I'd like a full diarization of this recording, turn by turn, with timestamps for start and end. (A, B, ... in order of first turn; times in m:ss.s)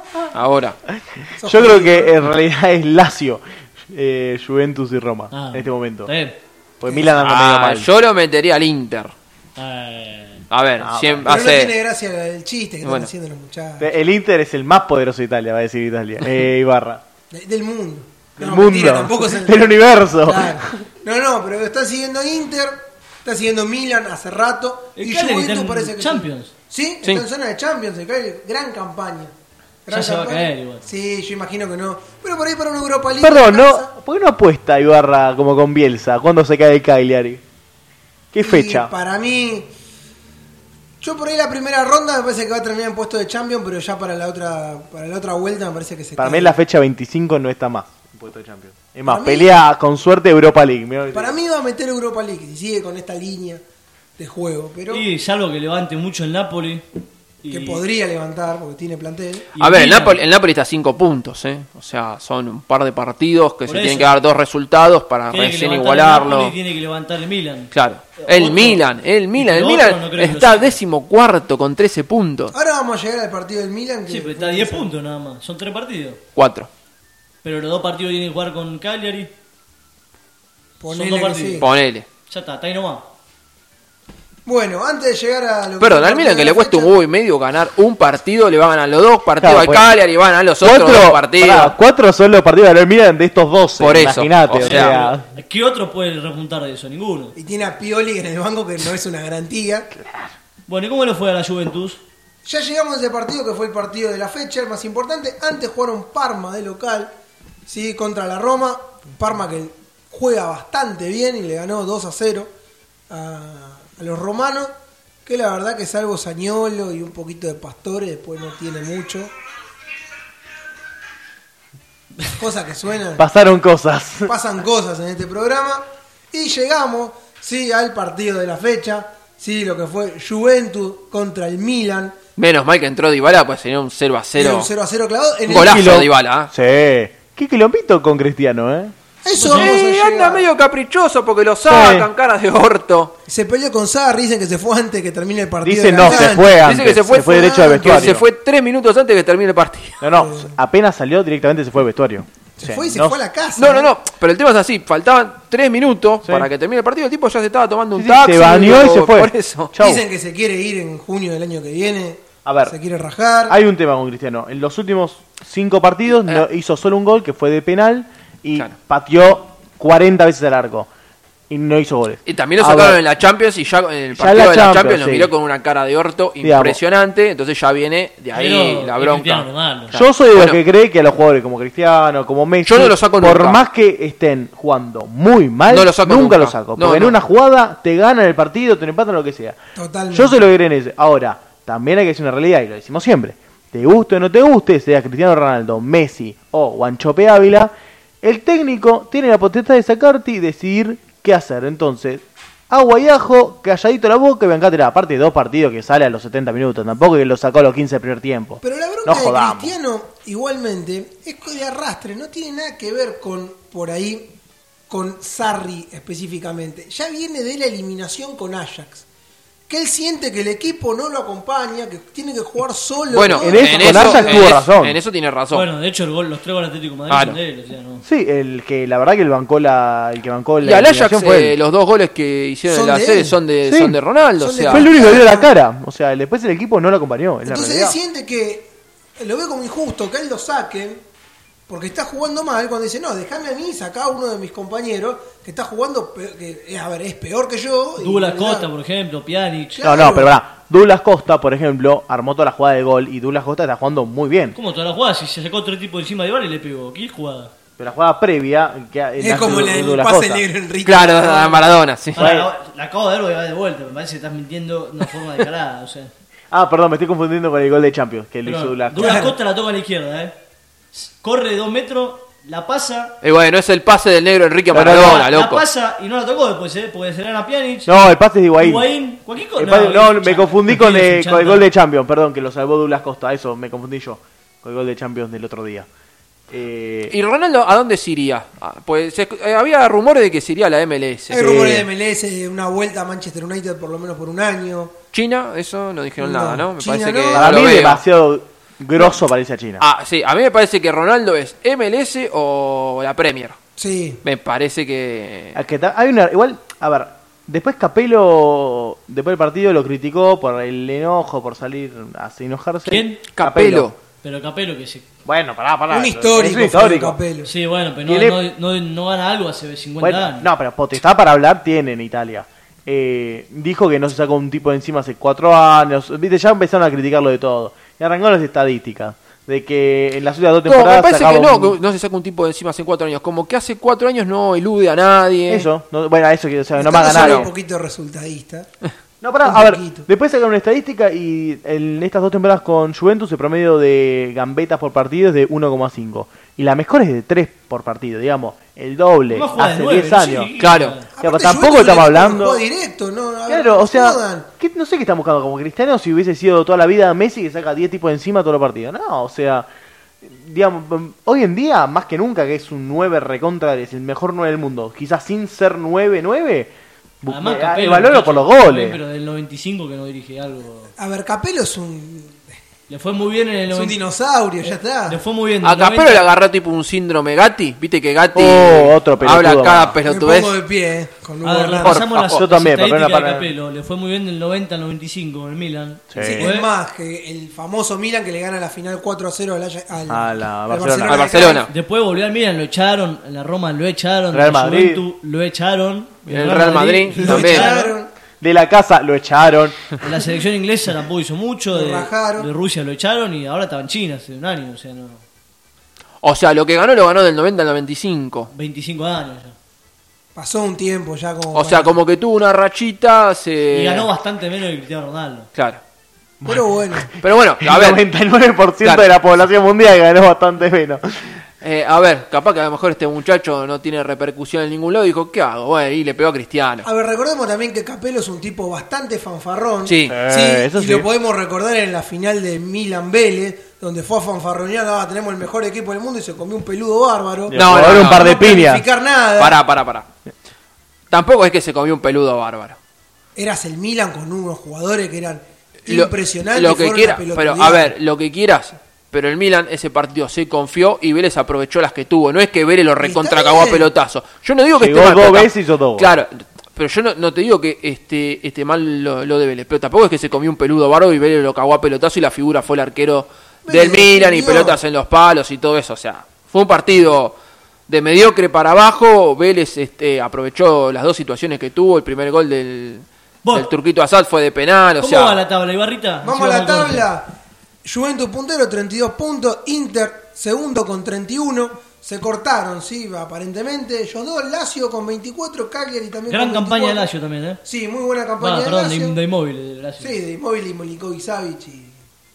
0:00.3-0:00.8 A
0:01.0-0:06.1 B
0:01.4-0:02.1 C
0:05.3-0:06.4 D
0:06.8-0:07.9 B
0:06.8-0:07.2 C
0:07.2-0:09.1 A
0:09.6-0:10.4 D
0:10.5-0:11.7 A
0:10.8-0:11.3 B
0:11.2-0:13.9 C
0:12.8-0:13.1 A
0:13.8-0:17.0 B
0:17.3-0:29.3 C
0:18.4-0:20.7 B
0:25.0-0:26.5 D
0:29.8-0:33.9 C
0:29.9-0:30.8 D
0:33.2-0:37.4 B
0:38.3-0:38.9 B
0:38.4-0:39.7 C
0:41.0-0:46.6 C
0:46.2-0:51.4 B
0:49.0-0:49.6 C
0:51.1-0:53.6 C
0:54.2-0:55.0 C
0:54.9-0:56.8 D
0:57.4-0:57.8 D
0:57.5-0:59.5 C
0:59.5-1:00.2 D
0:59.6-1:06.5 A
1:03.6-1:04.2 D
1:05.3-1:08.8 D
1:07.7-1:12.5 A
1:09.4-1:10.8 D
1:12.5-1:14.9 C
1:14.1-1:16.2 D
1:16.4-1:16.7 A
1:17.4-1:19.3 D
1:20.8-1:21.7 C
1:20.9-1:21.7 D
1:21.6-1:22.0 A
1:22.3-1:23.1 D
1:24.4-1:26.9 C
1:25.8-1:31.7 A
1:29.4-1:29.9 B
1:30.6-1:35.3 B
1:33.8-1:34.9 A
1:34.6-1:37.3 D
1:37.4-1:39.9 C
1:39.9-1:40.3 B
1:40.7-1:42.0 D
1:42.4-1:47.1 C
1:47.6-1:52.5 C
1:53.1-1:54.7 C
1:55.2-1:59.3 C
2:02.3-2:03.2 C
2:03.2-2:04.3 B
2:04.2-2:12.2 C
2:12.4-2:14.7 A
2:14.4-2:15.9 C
2:15.5-2:16.5 A
2:15.5-2:18.9 B
2:19.2-2:20.5 C
2:19.4-2:23.2 A
2:21.6-2:22.1 B
2:23.3-2:28.2 C
2:25.6-2:28.2 B
2:26.0-2:30.0 A
2:30.0-2:33.2 B
2:30.1-2:30.5 C
2:32.6-2:33.9 C
2:33.6-2:39.7 A
2:36.2-2:36.5 B
2:37.9-2:40.0 B
2:39.8-2:43.6 C
2:42.4-2:42.8 B
2:43.5-2:50.9 B
2:46.1-2:46.4 A
2:51.5-2:53.0 B
2:52.2-3:00.6 A
2:54.1-2:55.3 B
2:56.4-2:56.8 B
2:58.3-2:59.9 D
2:59.9-3:09.6 B
3:02.6-3:03.6 A
3:05.7-3:07.2 A
3:09.8-3:10.4 C
3:10.1-3:29.8 B
3:28.6-3:34.3 C
3:34.9-3:39.0 C
3:39.7-3:44.5 C
3:43.1-3:45.6 A
3:43.4-3:45.0 B
3:45.5-3:48.0 D
3:47.1-3:47.4 A
3:48.0-3:51.6 B
3:50.6-3:55.1 A
3:52.7-3:53.4 C
3:53.6-3:54.0 B
3:54.4-3:55.5 C
3:54.7-3:58.0 B
3:57.4-4:01.0 C
4:01.7-4:08.7 C
4:08.0-4:09.8 D
4:09.7-4:10.4 C
4:09.8-4:14.6 B
4:14.5-4:17.5 D
4:17.8-4:20.4 B
4:19.2-4:21.8 C
4:20.8-4:22.3 A
4:22.1-4:26.1 D
4:22.2-4:22.5 B
4:26.5-4:29.3 B
4:28.4-4:30.4 D
4:29.0-4:29.3 C
4:30.9-4:33.2 D
4:33.2-4:35.6 A
4:34.7-4:35.2 B
4:34.8-4:37.9 D
4:37.8-4:38.9 B
4:38.6-4:41.6 D
4:39.6-4:45.9 B
4:46.5-4:47.1 B
4:47.1-4:51.4 A
4:51.3-4:54.9 C
4:51.3-4:51.9 B
4:55.1-4:58.0 A
4:56.2-4:57.6 C
4:57.3-4:59.8 B
4:59.8-5:03.6 A
5:03.8-5:04.2 C
5:04.2-5:05.6 A
5:05.5-5:13.9 B
5:12.9-5:13.2 D
5:13.3-5:13.9 A
5:14.2-5:15.0 D
5:15.2-5:17.2 B
5:15.9-5:17.5 C
5:17.4-5:20.5 D
5:18.0-5:18.4 B
5:20.0-5:31.8 B
5:30.6-5:35.7 A
5:35.5-5:37.5 B
5:36.8-5:38.7 C
5:37.0-5:37.5 A
5:39.2-5:50.5 B
5:39.4-5:40.1 C
5:49.3-5:51.1 D
5:50.6-5:51.0 A
5:51.1-5:54.5 C
5:51.2-5:52.6 B
5:53.5-5:59.7 B
6:00.2-6:09.0 B
6:07.3-6:10.9 D
6:11.0-6:12.4 C
6:12.9-6:14.0 D
6:13.7-6:15.2 C
6:14.7-6:16.3 D
6:15.6-6:20.6 A
6:18.3-6:20.0 B
6:20.0-6:22.0 C
6:21.4-6:26.7 D
6:21.8-6:22.4 A
6:22.2-6:23.5 B
6:26.1-6:26.5 B
6:26.2-6:31.6 C
6:30.1-6:31.3 B
6:31.1-6:31.7 A
6:31.7-6:37.9 D
6:34.3-6:35.0 B
6:36.3-6:37.7 A
6:37.1-6:38.1 C
6:38.4-6:39.8 B
6:40.0-6:45.2 D
6:41.7-6:42.5 C
6:46.2-6:48.5 A
6:48.5-6:49.6 D
6:50.3-6:52.0 C
6:51.5-6:54.1 A
6:53.7-6:55.5 D
6:55.5-6:55.8 A
6:56.4-7:01.4 B
6:56.4-6:57.1 C
6:57.2-6:58.0 A
7:01.6-7:06.9 A
7:06.8-7:19.6 C
7:09.8-7:10.2 A
7:10.0-7:11.1 B
7:17.5-7:18.8 B
7:17.5-7:18.4 A
7:19.4-7:20.0 A
7:21.1-7:22.8 A
7:23.4-7:27.9 C
7:25.9-7:47.4 A
7:33.0-7:33.9 C
7:34.7-7:36.1 B
7:43.6-7:44.8 C
7:47.9-7:55.4 A
7:53.4-7:53.7 D
7:55.0-7:57.1 D
7:56.2-8:07.1 C
8:06.3-8:07.6 D
8:07.6-8:09.2 C
8:08.4-8:10.2 D
8:10.0-8:12.0 C